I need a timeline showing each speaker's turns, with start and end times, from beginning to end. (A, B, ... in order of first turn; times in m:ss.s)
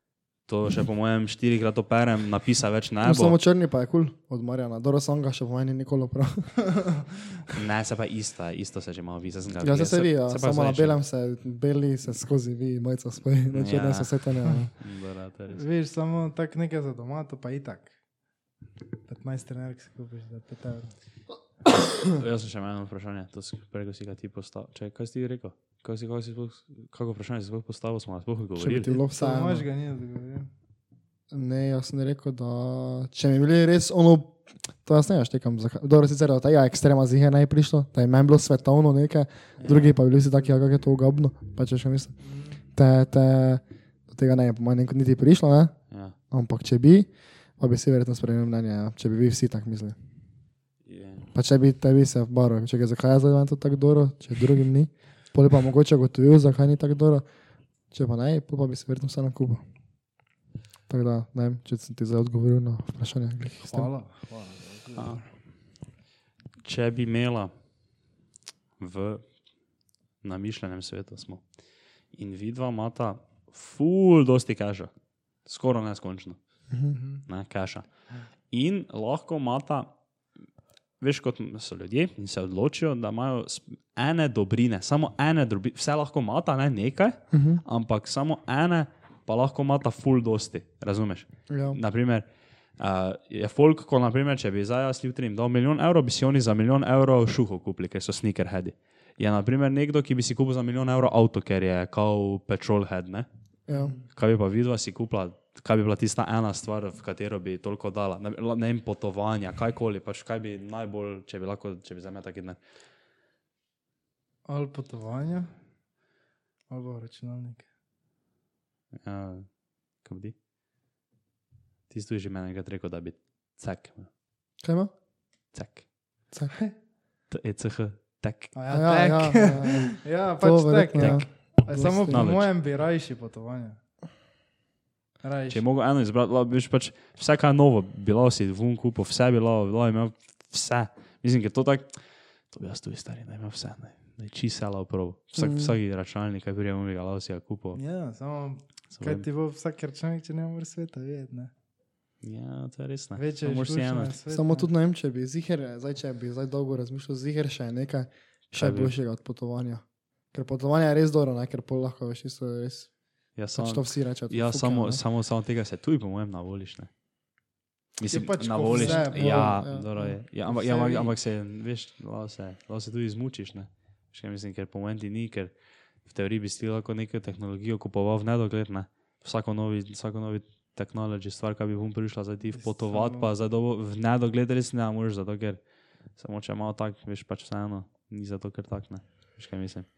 0:00.5-0:03.4 A
0:03.0-0:06.6 B
0:06.6-0:07.5 C
0:07.5-0:11.0 A
0:09.6-0:14.7 B
0:13.5-0:15.6 A
0:14.4-0:14.7 C
0:15.5-0:17.9 C
0:19.1-0:21.0 C
0:22.0-0:28.9 A
0:28.6-0:29.6 B
0:28.9-0:30.5 C
0:31.3-0:42.2 B
0:39.6-0:40.0 A
0:42.2-0:42.6 C
0:42.8-0:45.8 B
0:45.9-0:46.2 A
0:46.3-0:50.0 B
0:50.8-0:51.3 A
0:51.3-0:57.3 B
0:57.9-0:59.6 B
1:00.9-1:03.9 B
1:03.6-1:05.3 C
1:05.0-1:05.2 A
1:06.6-1:07.5 A
1:08.8-1:09.4 A
1:10.2-1:11.5 A
1:12.1-1:14.9 A
1:15.4-1:16.4 A
1:16.9-1:17.2 C
1:17.3-1:19.9 A
1:21.0-1:32.2 A
1:27.3-1:27.6 B
1:31.5-1:31.8 B
1:32.8-1:43.3 A
1:43.7-1:44.0 B
1:43.7-1:44.0 C
1:44.1-1:52.6 A
1:54.4-1:55.5 C
1:56.7-1:57.7 C
1:59.0-1:59.5 A
2:00.0-2:00.4 A
2:01.9-2:04.1 A
2:04.6-2:04.9 B
2:05.5-2:05.9 A
2:06.5-2:06.8 C
2:07.3-2:08.5 A
2:08.5-2:13.8 C
2:08.7-2:12.3 B
2:12.1-2:12.5 A
2:15.2-2:15.6 C
2:15.5-2:27.8 A
2:25.4-2:25.7 B
2:27.8-2:31.5 C
2:29.0-2:29.2 A
2:32.2-2:34.1 A
2:33.2-2:34.7 C
2:34.3-2:42.9 B
2:38.5-2:39.0 A
2:43.4-2:46.9 A
2:43.5-2:45.0 B
2:48.0-3:05.6 A
2:48.1-2:51.1 C
2:48.8-2:50.0 B
3:02.5-3:03.3 C
3:06.1-3:09.9 A